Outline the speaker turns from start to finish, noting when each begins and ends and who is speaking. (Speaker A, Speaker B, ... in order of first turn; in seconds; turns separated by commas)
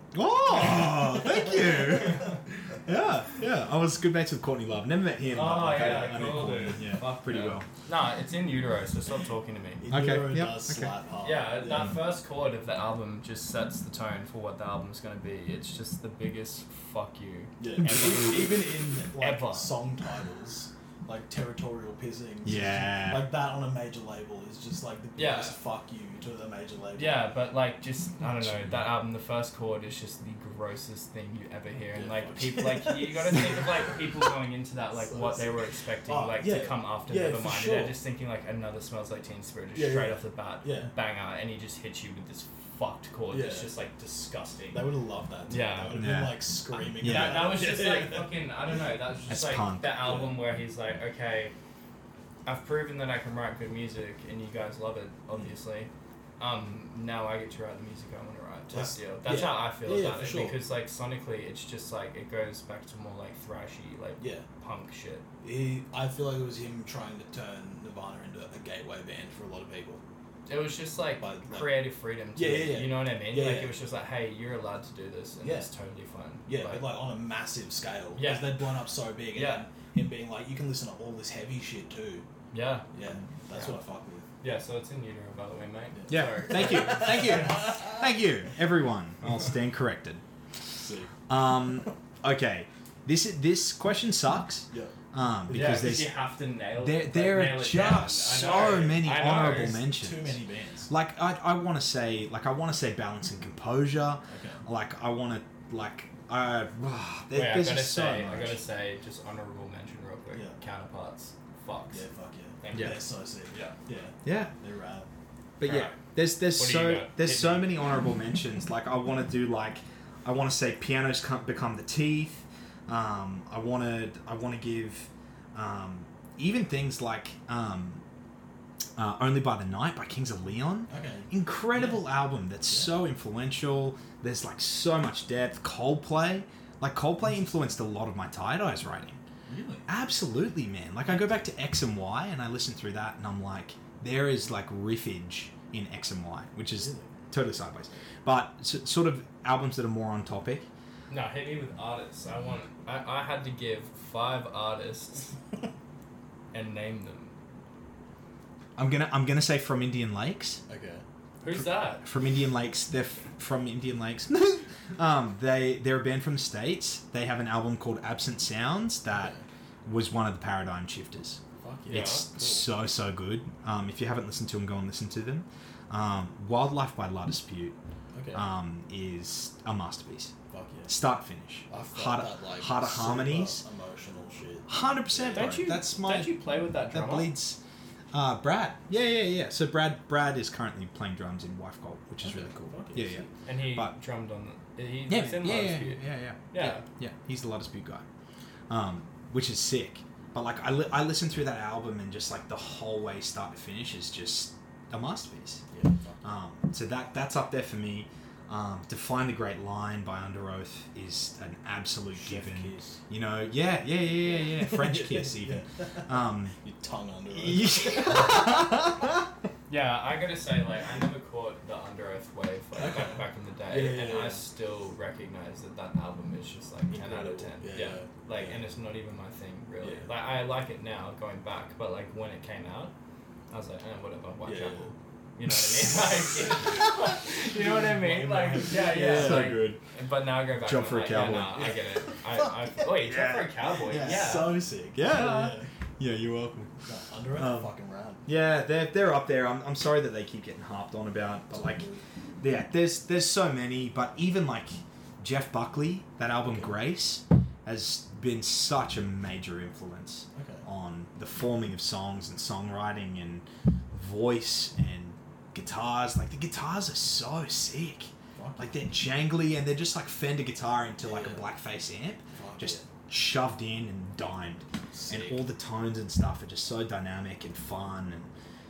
Speaker A: 0.1-7.7, Speaker B: 0.8-2.1, Speaker C: 5.3-9.8, Speaker B: 5.7-6.7, Speaker B: 9.8-12.0, Speaker A: 9.9-10.9, Speaker C: 11.2-18.6, Speaker B: 17.6-27.3, Speaker C: 19.2-19.7, Speaker A: 22.4-23.3, Speaker C: 25.2-25.6, Speaker C: 27.0-44.9, Speaker A: 28.4-28.9, Speaker B: 31.9-34.0, Speaker B: 35.0-38.0, Speaker B: 39.8-40.9, Speaker B: 43.3-43.7, Speaker B: 44.7-48.4, Speaker C: 45.5-46.1, Speaker A: 45.9-46.4, Speaker A: 47.0-47.5, Speaker C: 47.0-51.5, Speaker A: 49.3-50.1, Speaker B: 50.0-50.3, Speaker C: 52.5-65.2, Speaker B: 58.7-60.6, Speaker B: 64.2-64.5, Speaker B: 65.4-70.0, Speaker C: 70.5-76.9, Speaker B: 71.2-73.8, Speaker B: 75.4-75.7, Speaker B: 76.5-82.2, Speaker C: 78.2-78.6, Speaker C: 79.3-79.7, Speaker C: 82.5-82.9, Speaker B: 82.9-84.3, Speaker C: 83.5-83.8, Speaker C: 84.4-87.5, Speaker B: 86.0-88.0, Speaker A: 86.1-90.2, Speaker B: 90.8-91.1, Speaker A: 91.3-96.1, Speaker B: 95.5-96.1, Speaker C: 95.5-99.8, Speaker A: 96.8-108.5, Speaker B: 98.5-99.0, Speaker B: 99.7-100.9, Speaker B: 104.3-104.6, Speaker C: 107.3-112.0, Speaker B: 108.1-108.6, Speaker B: 111.9-115.1, Speaker C: 112.6-113.8, Speaker A: 112.7-113.0, Speaker A: 114.2-114.5, Speaker A: 115.6-128.0, Speaker C: 115.6-116.0, Speaker C: 116.5-117.8, Speaker A: 129.0-139.2, Speaker B: 130.9-132.0, Speaker B: 132.7-132.9, Speaker B: 137.2-137.7, Speaker B: 139.5-139.9, Speaker A: 139.9-150.7, Speaker B: 146.8-147.1, Speaker C: 151.1-155.3, Speaker C: 156.5-157.3, Speaker A: 158.8-160.6, Speaker B: 160.7-161.0, Speaker C: 161.4-162.1, Speaker A: 161.5-169.3, Speaker B: 169.1-169.4, Speaker A: 169.8-177.8, Speaker B: 171.6-172.7, Speaker C: 171.9-172.3, Speaker B: 178.1-178.4, Speaker A: 178.3-180.3, Speaker B: 180.5-180.9, Speaker A: 180.9-183.6, Speaker B: 181.7-185.6, Speaker A: 184.7-187.6, Speaker C: 185.3-187.3, Speaker A: 188.1-193.9, Speaker B: 192.2-193.3, Speaker C: 193.5-196.8, Speaker A: 195.1-198.1, Speaker A: 198.7-205.6, Speaker B: 205.7-206.2, Speaker A: 206.2-216.6, Speaker B: 212.1-213.0, Speaker B: 214.2-218.6, Speaker A: 217.3-219.2, Speaker C: 219.7-232.9, Speaker B: 222.8-224.4, Speaker B: 226.9-228.6, Speaker B: 229.8-230.1, Speaker C: 233.5-244.6, Speaker B: 234.4-234.9, Speaker B: 237.4-239.6, Speaker A: 238.9-239.8, Speaker A: 240.6-241.7, Speaker B: 241.1-242.8, Speaker A: 242.9-244.4, Speaker B: 243.9-245.7, Speaker A: 244.9-246.7, Speaker B: 246.8-248.3, Speaker A: 247.4-247.7, Speaker A: 248.3-251.9, Speaker A: 252.4-278.3, Speaker B: 256.4-256.7, Speaker B: 260.3-260.6, Speaker B: 268.4-268.8, Speaker B: 271.0-271.5, Speaker B: 272.4-272.9, Speaker B: 274.9-275.4